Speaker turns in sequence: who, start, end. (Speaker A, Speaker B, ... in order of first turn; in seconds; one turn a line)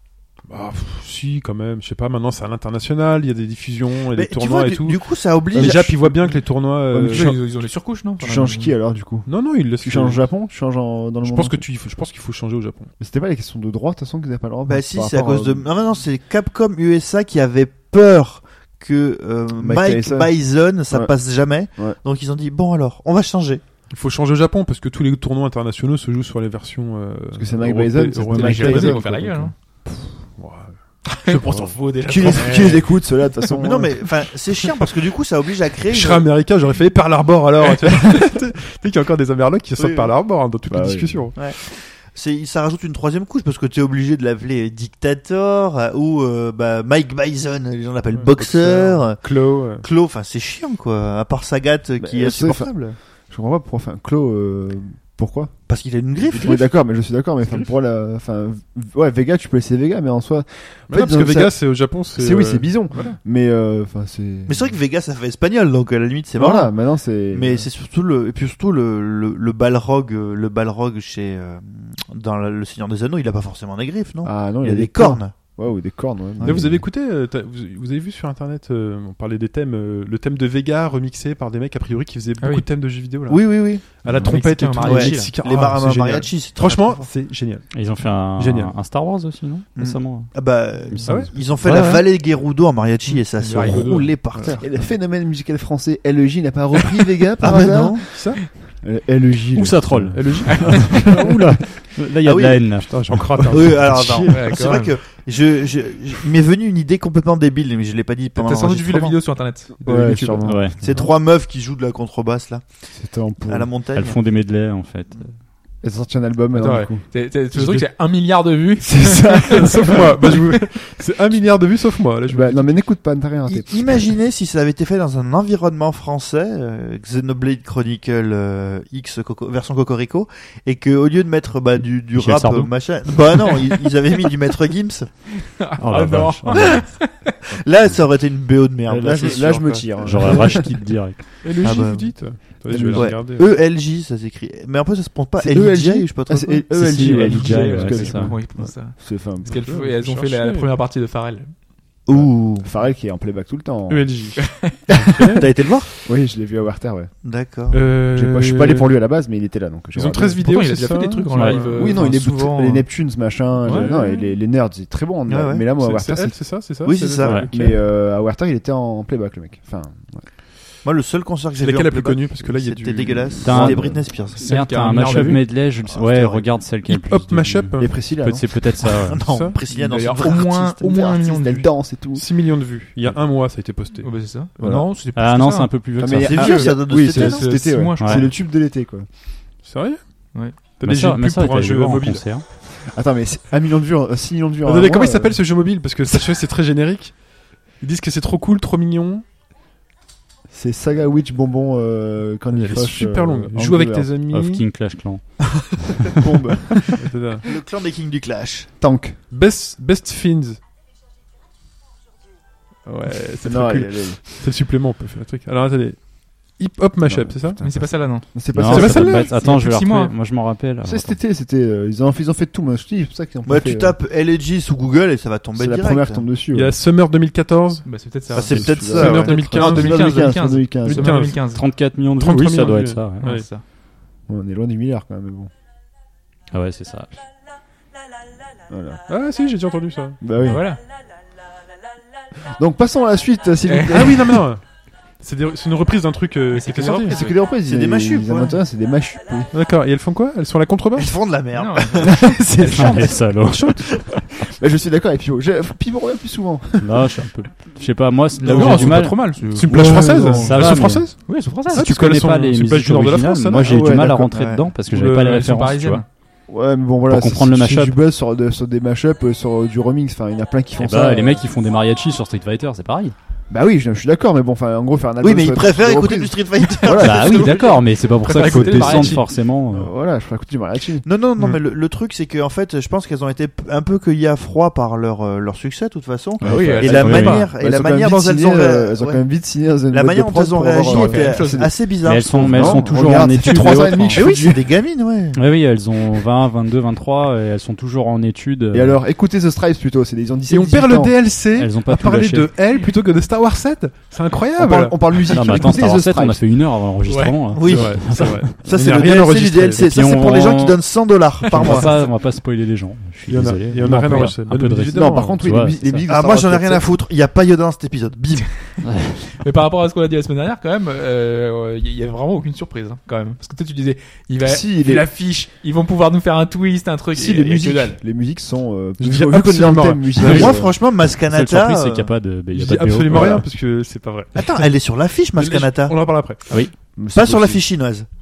Speaker A: 0.5-7.3
Speaker B: 4.1-5.9
Speaker C: 5.5-6.3
Speaker C: 6.9-7.4
Speaker D: 7.0-8.7
Speaker C: 8.2-9.3
Speaker A: 9.2-10.2
Speaker C: 9.8-11.6
Speaker A: 11.2-12.9
Speaker C: 13.0-15.7
Speaker B: 14.7-23.6
Speaker C: 19.6-20.3
Speaker A: 23.9-29.0
Speaker C: 27.3-29.5
Speaker D: 28.2-29.5
Speaker A: 29.9-30.7
Speaker D: 31.1-32.9
Speaker A: 31.3-31.7
Speaker C: 32.0-33.9
Speaker B: 33.6-36.3
Speaker A: 35.9-41.4
Speaker B: 39.8-40.1
Speaker C: 40.7-41.3
Speaker B: 41.4-49.3
Speaker A: 48.1-49.8
Speaker B: 49.8-53.0
Speaker C: 52.0-55.5
Speaker B: 55.7-56.7
Speaker C: 56.2-61.6
Speaker A: 60.9-63.1
Speaker C: 62.1-64.7
Speaker B: 64.5-66.7
Speaker C: 66.3-67.7
Speaker B: 67.3-75.3
Speaker C: 74.2-76.8
Speaker B: 76.4-76.7
Speaker A: 76.4-88.7
Speaker D: 82.4-82.6
Speaker B: 83.3-84.0
Speaker D: 84.0-85.3
Speaker B: 84.8-87.1
Speaker E: 87.7-92.1
Speaker B: 89.8-94.8
Speaker A: 91.0-91.3
Speaker D: 93.3-94.1
Speaker A: 93.5-94.6
Speaker C: 94.6-101.2
Speaker B: 97.4-98.2
Speaker A: 97.5-98.4
Speaker E: 99.5-104.4
Speaker A: 100.1-101.0
Speaker D: 100.5-101.0
Speaker B: 102.2-102.8
Speaker A: 102.9-104.4
Speaker B: 103.5-109.2
Speaker D: 104.3-105.0
Speaker D: 108.3-110.6
Speaker C: 109.8-111.1
Speaker E: 110.4-110.8
Speaker B: 110.8-112.7
Speaker C: 112.9-113.7
Speaker B: 113.5-114.2
Speaker E: 113.9-115.2
Speaker C: 115.8-117.0
Speaker D: 116.6-120.1
Speaker A: 117.5-117.9
Speaker C: 118.8-120.4
Speaker A: 119.4-122.8
Speaker C: 122.3-124.1
Speaker B: 123.5-135.1
Speaker E: 132.1-132.7
Speaker D: 133.4-133.8
Speaker D: 135.3-137.4
Speaker E: 135.8-137.0
Speaker B: 137.6-140.5
Speaker C: 138.9-140.7
Speaker E: 140.0-141.2
Speaker A: 141.4-143.5
Speaker B: 141.6-142.4
Speaker C: 142.7-143.1
Speaker B: 142.9-146.7
Speaker C: 145.4-149.5
Speaker E: 146.7-148.4
Speaker D: 146.9-151.5
Speaker A: 149.4-150.7
Speaker B: 152.1-152.7
Speaker C: 152.6-154.1
Speaker A: 153.9-155.4
Speaker D: 154.4-155.3
Speaker B: 155.3-155.9
Speaker C: 156.0-157.1
Speaker B: 157.2-157.8
Speaker A: 157.7-158.9
Speaker C: 158.1-160.5
Speaker A: 159.9-162.1
Speaker D: 160.4-162.8
Speaker E: 161.3-161.6
Speaker C: 161.7-166.4
Speaker A: 163.6-164.3
Speaker B: 165.3-165.6
Speaker A: 165.8-167.8
Speaker B: 166.8-167.5
Speaker E: 167.2-167.5
Speaker C: 167.5-170.2
Speaker B: 170.8-174.4
Speaker A: 171.6-173.6
Speaker E: 173.4-179.2
Speaker C: 173.5-174.0
Speaker D: 174.3-175.6
Speaker B: 175.8-176.4
Speaker A: 176.9-178.0
Speaker C: 177.8-178.5
Speaker B: 179.0-180.6
Speaker A: 179.2-179.6
Speaker D: 179.7-181.7
Speaker C: 180.2-182.2
Speaker A: 182.1-184.1
Speaker D: 184.0-185.8
Speaker C: 184.6-184.9
Speaker E: 185.1-186.7
Speaker C: 186.0-189.1
Speaker B: 186.2-187.5
Speaker D: 186.6-188.3
Speaker E: 188.0-188.3
Speaker A: 189.6-190.0
Speaker D: 190.3-190.6
Speaker A: 190.7-192.2
Speaker E: 190.8-192.4
Speaker C: 192.8-195.4
Speaker A: 194.6-197.2
Speaker A: 197.8-199.2
Speaker C: 200.5-204.1
Speaker A: 202.5-204.6
Speaker E: 204.3-206.0
Speaker C: 206.1-207.0
Speaker A: 206.9-207.5
Speaker B: 207.4-208.7
Speaker C: 208.8-209.2
Speaker A: 209.3-210.6
Speaker A: 212.8-217.6
Speaker C: 213.4-214.2
Speaker C: 217.0-219.3
Speaker D: 217.6-220.1
Speaker E: 218.5-221.2
Speaker A: 218.7-219.3
Speaker C: 220.8-223.9
Speaker B: 223.4-226.2
Speaker C: 225.5-226.7
Speaker A: 226.5-227.8
Speaker D: 227.8-231.6
Speaker B: 228.3-229.4
Speaker C: 228.3-231.2
Speaker A: 228.4-230.2
Speaker A: 230.8-231.4
Speaker E: 231.5-233.3
Speaker A: 232.1-233.4
Speaker D: 233.2-233.6
Speaker C: 234.3-235.5
Speaker E: 236.5-237.1
Speaker C: 238.7-239.0
Speaker A: 239.1-240.2
Speaker C: 240.2-240.6
Speaker D: 240.4-240.8
Speaker C: 242.5-244.4
Speaker D: 243.7-244.0
Speaker A: 243.9-244.7
Speaker A: 245.2-247.2
Speaker D: 246.5-247.4
Speaker C: 246.8-249.5
Speaker B: 247.6-248.6
Speaker A: 249.5-251.1
Speaker B: 251.0-252.3
Speaker D: 251.5-253.3
Speaker C: 252.0-253.0
Speaker E: 252.7-253.9
Speaker B: 253.8-254.1
Speaker C: 254.4-257.1
Speaker E: 256.8-259.4
Speaker D: 258.4-261.9
Speaker A: 258.4-263.9
Speaker C: 259.7-261.0
Speaker E: 260.4-261.1
Speaker E: 261.7-266.0
Speaker C: 263.5-264.3
Speaker B: 264.3-264.7
Speaker A: 264.9-265.5
Speaker D: 265.2-266.0
Speaker C: 266.5-271.4
Speaker E: 267.1-268.0
Speaker E: 270.8-273.1
Speaker C: 273.5-277.7
Speaker B: 275.2-277.8
Speaker E: 276.9-279.9
Speaker D: 278.2-279.3
Speaker C: 278.4-281.0
Speaker B: 281.0-289.3
Speaker E: 286.4-287.5
Speaker D: 286.4-287.4
Speaker C: 286.6-291.7
Speaker B: 289.9-292.8
Speaker D: 290.8-291.6
Speaker E: 292.0-294.3
Speaker C: 292.4-294.6
Speaker B: 293.6-295.4
Speaker E: 295.3-299.0
Speaker C: 298.7-301.1
Speaker A: 300.5-305.4
Speaker E: 301.5-302.5
Speaker C: 304.6-306.4
Speaker E: 305.3-308.5
Speaker D: 307.0-307.5
Speaker B: 307.5-311.9
Speaker A: 307.6-309.8
Speaker E: 309.8-310.8
Speaker E: 311.4-316.1
Speaker D: 311.6-312.1
Speaker A: 313.3-315.4
Speaker C: 313.8-316.9
Speaker B: 316.1-318.6
Speaker E: 318.8-319.3
Speaker D: 319.3-328.0
Speaker C: 324.4-325.1
Speaker C: 327.1-330.7
Speaker A: 329.0-330.5
Speaker B: 330.2-332.1
Speaker E: 330.2-333.4
Speaker A: 332.5-334.7
Speaker C: 333.1-333.4
Speaker B: 334.4-336.5
Speaker A: 335.3-336.4
Speaker C: 336.9-337.6
Speaker B: 337.1-338.1